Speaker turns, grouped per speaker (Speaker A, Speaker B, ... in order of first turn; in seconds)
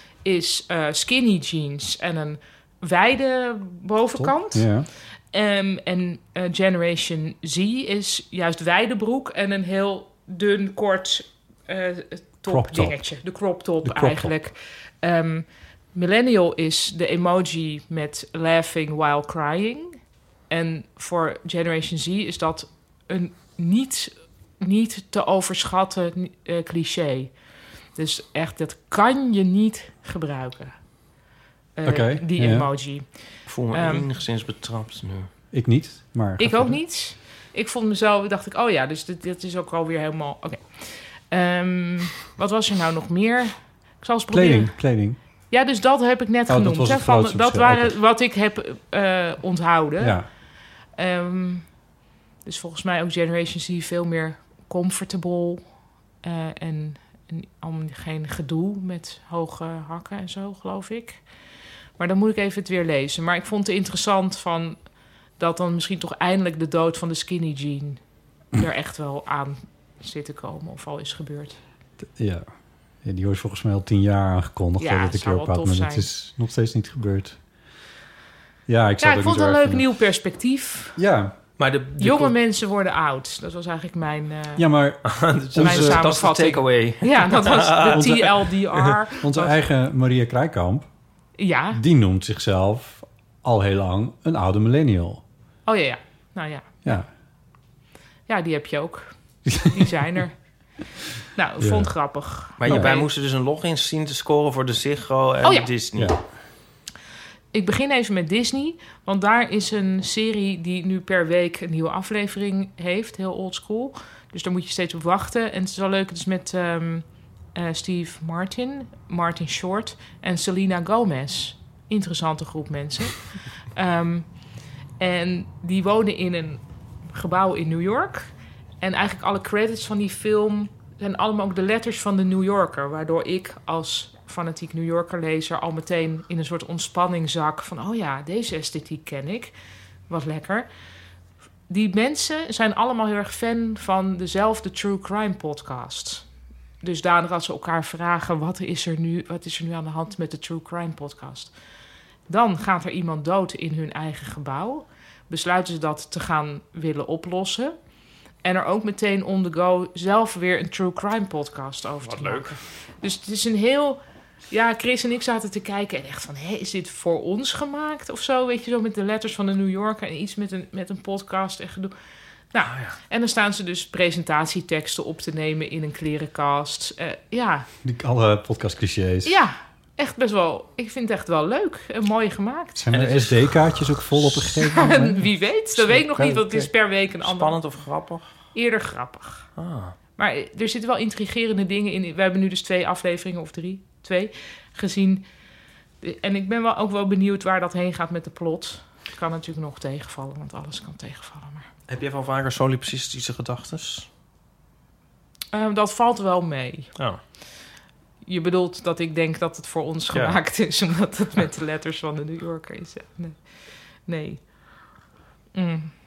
Speaker A: 0.2-27.4, 27.9-30.8, 31.8-34.0, 36.4-44.8, 45.5-50.2, 50.9-51.7, 52.4-55.7, 56.2-61.2, 62.0-64.8, 65.4-68.0, 68.5-71.6, 74.8-76.1, 79.0-81.0, 82.0-84.6, 85.6-89.5, 91.4-91.8, 95.7-96.8, 98.3-100.4, 101.3-103.1, 105.4-105.7, 107.5-124.4, 125.0-139.5, 140.1-140.7, 141.7-146.2, 146.8-151.5, 152.3-157.7, 158.4-164.0, 164.5-171.9, 172.5-177.7, 179.2-182.8, 184.5-187.6, 188.5-189.5, 190.2-195.2, 196.0-201.7, 205.5-206.9, 208.2-213.5, 214.0-214.4, 215.5-215.9
Speaker B: 4.1-4.9, 12.4-13.2, 13.8-14.4, 31.8-32.7, 35.5-36.8, 44.3-45.2, 46.5-48.0, 50.0-50.3, 72.1-72.5, 73.0-77.4, 78.7-79.8, 81.0-81.3, 84.6-86.1, 87.8-88.3, 89.2-90.9, 91.7-95.2, 99.5-99.9, 101.6-101.9, 102.6-102.9, 105.9-106.2, 177.8-179.3, 182.7-186.7
Speaker C: 33.5-35.3, 81.6-82.3, 85.0-89.0, 102.6-106.1, 162.0-162.6, 172.6-172.9, 182.9-183.7, 185.9-186.6, 187.2-188.3, 189.6-189.9, 201.9-204.1, 210.1-210.4